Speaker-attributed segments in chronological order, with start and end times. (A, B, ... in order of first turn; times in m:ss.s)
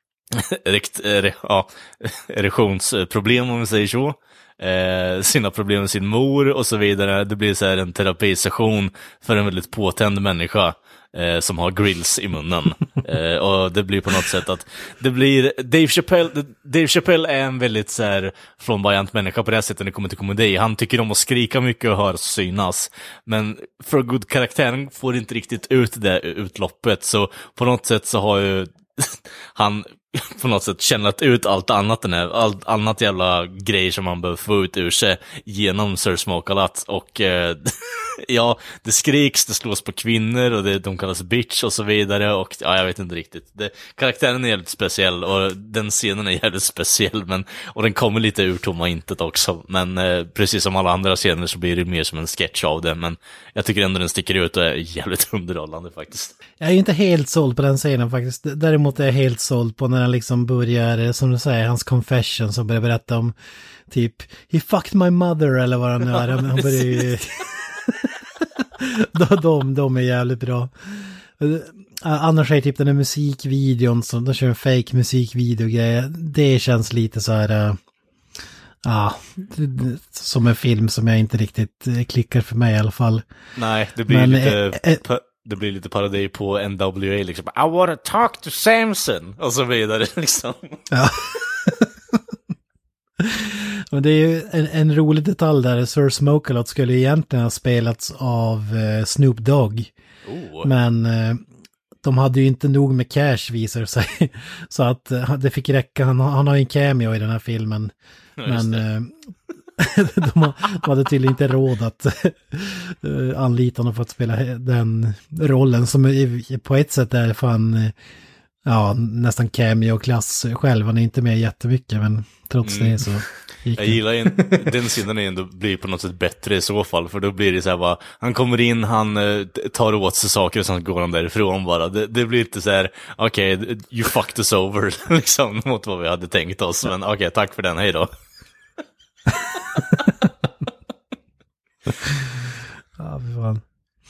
0:00.3-0:56.3 A
0:56.6-1:03.3 B
1:03.9-1:17.8 B
1:06.1-1:07.2 A
1:18.8-1:23.2 B
1:23.5-1:30.8 A
1:24.1-1:25.0 B
1:30.9-1:32.2 B
1:33.2-1:39.9 B
1:40.2-1:40.7 A
1:40.6-1:41.4 B
1:42.0-1:47.9 B
1:48.4-1:48.8 A
1:48.4-1:49.1 B
1:49.8-1:57.9 B
1:58.6-2:04.0 B
2:02.6-2:03.1 A
2:03.8-2:18.1 A
2:23.0-2:23.6 B